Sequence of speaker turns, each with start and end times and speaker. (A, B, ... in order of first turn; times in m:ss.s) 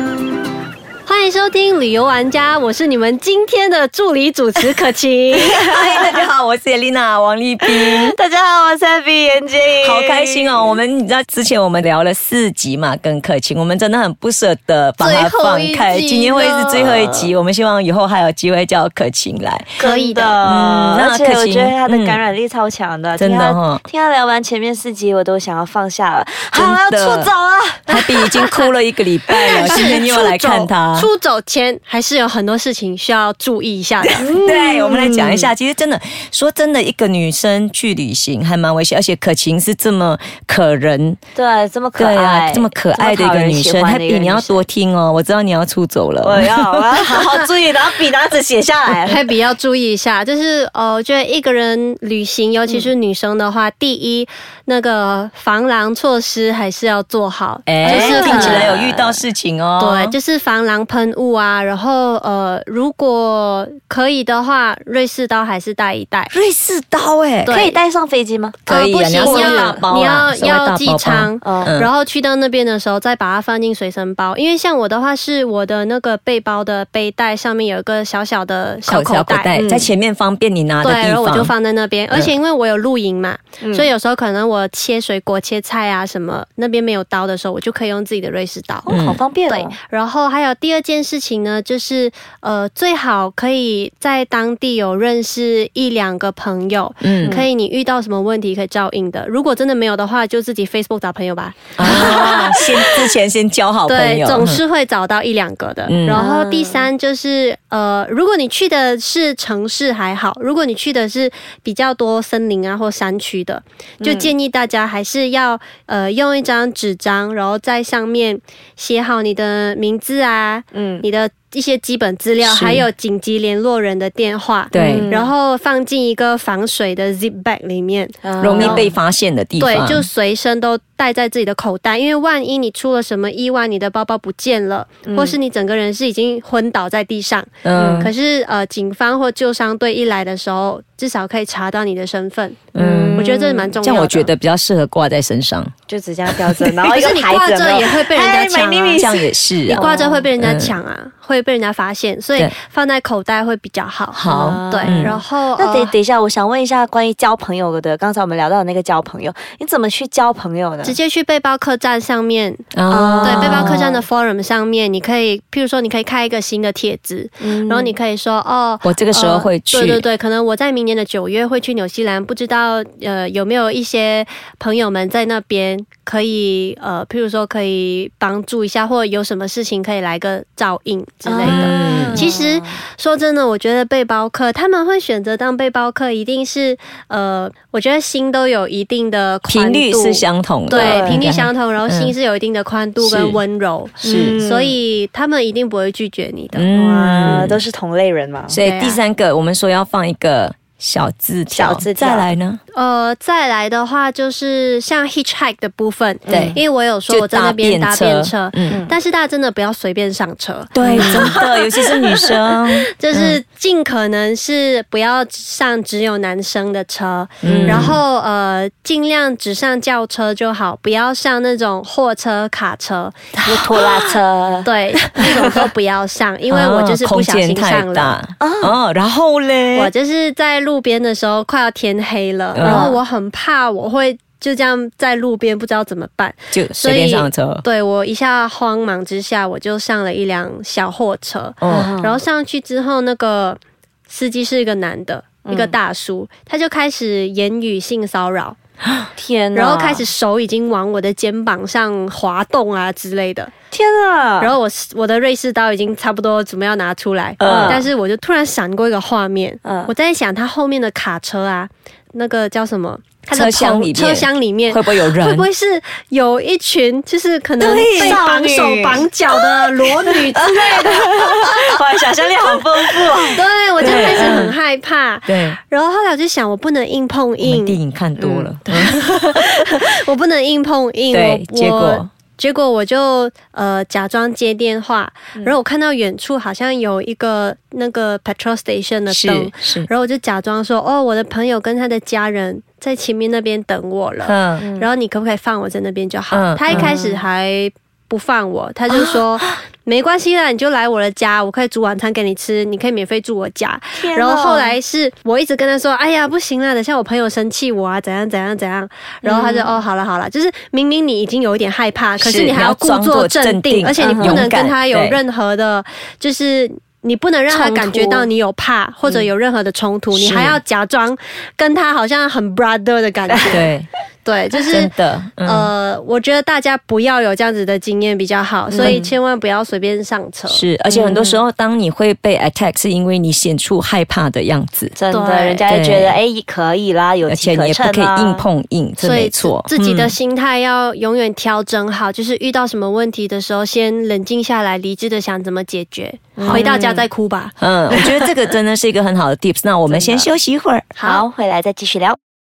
0:01.0-0:05.6 A
0:05.4-0:08.1 B
0:05.5-0:06.3 C
0:07.6-0:10.8 C
0:09.8-0:19.8 B
0:15.0-0:17.3 A
0:19.8-0:28.5 C
0:19.8-0:20.4 A
0:20.4-0:22.2 B
0:23.2-0:23.8 B
0:26.5-0:27.3 B
0:27.9-0:28.2 A
0:27.9-0:31.1 B
0:29.5-0:29.9 C
0:29.5-0:34.2 A
0:34.2-0:35.5 C
0:34.3-0:41.2 B
0:41.3-0:44.6 C
0:42.0-0:47.0 B
0:46.2-0:49.2 C
0:49.0-0:59.1 A
0:57.7-1:00.2 B
0:57.8-0:58.9 C
0:59.8-1:06.3 A
1:06.3-1:07.6 B
1:07.4-1:07.8 A
1:07.5-1:08.6 C
1:08.7-1:11.9 B
1:08.7-1:19.6 A
1:09.2-1:09.9 C
1:11.4-1:11.7 C
1:18.9-1:21.5 B
1:19.5-1:19.9 C
1:20.8-1:29.0 A
1:23.6-1:23.9 C
1:28.9-1:29.8 C
1:28.9-1:29.2 B
1:29.5-1:43.0 A
1:37.0-1:37.4 B
1:37.2-1:37.5 C
1:41.8-1:44.6 B
1:41.8-1:42.3 C
1:43.8-2:08.9 A
1:45.9-1:46.2 B
1:46.1-1:46.9 C
1:54.0-1:54.3 C
2:00.7-2:01.0 C
2:02.4-2:02.8 B
2:04.7-2:05.1 B
2:04.7-2:05.3 C
2:08.2-2:08.9 C
2:08.4-2:10.1 B
2:09.6-2:24.3 A
2:15.0-2:15.4 C
2:17.6-2:18.1 B
2:17.7-2:18.1 C
2:22.7-2:25.7 B
2:22.8-2:23.8 C
2:25.9-2:30.3 C
2:26.8-2:29.0 A
2:28.4-2:30.7 B
2:29.7-2:36.0 A
2:34.1-2:35.2 B
2:34.2-2:41.0 C
2:40.8-3:16.7 A
2:42.7-2:43.8 B
2:43.0-2:44.0 C
2:47.4-2:48.0 C
2:48.8-2:50.0 B
3:01.2-3:02.8 C
3:01.4-3:02.2 B
3:09.5-3:12.1 B
3:10.7-3:11.3 C
3:13.0-3:13.4 B
3:14.0-3:14.4 B
3:14.0-3:14.7 C
3:16.5-3:17.6 B
3:16.7-3:18.6 C
3:17.2-3:17.6 A
3:18.5-3:22.6 B
3:18.6-3:19.0 A
3:21.5-3:22.3 C
3:22.7-3:31.5 A
3:26.2-3:26.6 C
3:26.3-3:28.8 B
3:28.7-3:28.9 C
3:30.7-3:33.4 B
3:30.8-3:31.4 C
3:32.9-3:43.2 A
3:37.4-3:38.0 C
3:37.4-3:38.0 B
3:43.4-3:45.6 C
3:44.6-3:48.2 A
3:46.5-3:49.9 B
3:48.4-3:48.8 C
3:49.7-4:08.6 A
3:52.5-3:53.0 B
3:52.6-3:53.0 C
3:56.5-3:57.6 B
4:01.6-4:01.9 B
4:01.7-4:02.2 C
4:05.4-4:05.7 C
4:09.2-4:10.0 C
4:09.5-4:13.5 A
4:13.7-4:14.5 C
4:14.4-4:31.2 A
4:17.4-4:17.9 B
4:17.4-4:17.8 C
4:19.6-4:19.9 C
4:23.3-4:25.4 B
4:27.6-4:34.5 C
4:27.6-4:28.2 B
4:33.3-4:37.8 A
4:33.8-4:34.5 B
4:35.3-4:35.6 B
4:37.4-4:39.8 B
4:38.2-4:38.5 C
4:38.6-5:23.7 A
4:41.1-4:42.1 B
4:49.1-4:49.9 B
4:54.2-4:54.6 B
4:54.6-4:54.9 C
4:56.3-4:56.9 B
4:56.7-4:57.2 C
4:58.9-4:59.5 B
5:03.9-5:04.8 C
5:09.2-5:09.8 C
5:12.2-5:15.2 B
5:14.0-5:14.6 C
5:17.5-5:18.3 C
5:20.2-5:20.5 C
5:20.2-5:20.6 B
5:23.5-5:23.8 B
5:24.2-5:24.9 A
5:24.7-5:25.7 B
5:25.4-5:30.6 A
5:28.7-5:29.1 C
5:30.5-5:34.9 B
5:30.9-5:31.4 C
5:34.9-5:38.4 C
5:35.1-5:35.7 A
5:35.7-5:36.2 B
5:37.3-5:40.1 B
5:39.0-5:48.3 A
5:46.4-5:47.1 C
5:46.4-5:46.7 B
5:47.6-5:50.9 B
5:49.9-5:50.3 C
5:51.0-5:51.2 A
5:51.0-5:52.2 C